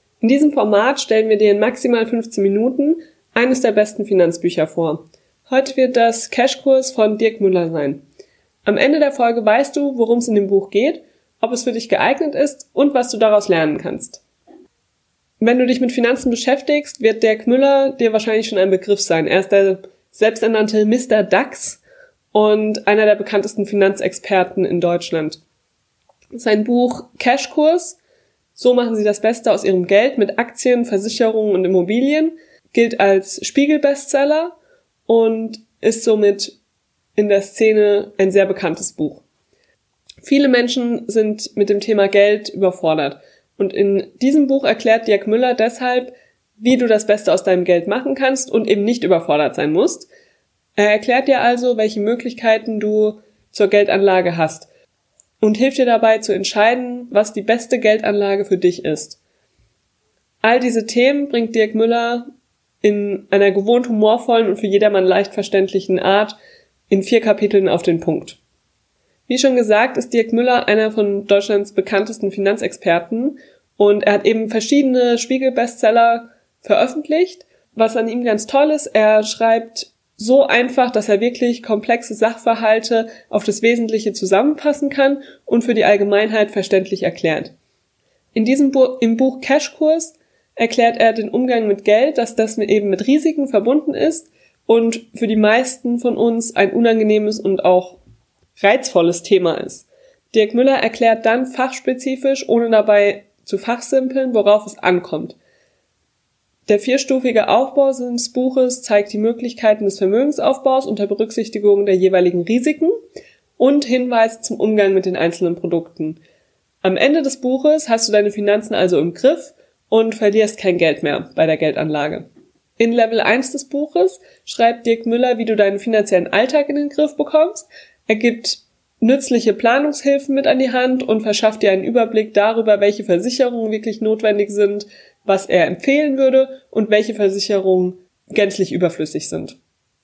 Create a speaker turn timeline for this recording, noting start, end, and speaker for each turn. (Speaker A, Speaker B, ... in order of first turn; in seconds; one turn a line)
Speaker A: 0.2-8.0
Speaker A: 8.7-14.2
Speaker A: 15.4-21.8
Speaker A: 22.3-25.4
Speaker A: 26.4-28.0
Speaker A: 28.6-34.5
Speaker A: 35.1-36.6
Speaker A: 37.2-39.2
Speaker A: 40.2-50.1
Speaker A: 50.8-54.7
Speaker A: 55.4-59.2
Speaker A: 60.4-62.3
Speaker A: 62.8-66.4
Speaker A: 66.9-68.4
Speaker A: 69.3-87.5
Speaker A: 88.3-98.0
Speaker A: 98.6-105.4
Speaker A: 106.7-112.9
Speaker A: 113.6-116.2
Speaker A: 116.8-122.3
Speaker A: 122.8-139.6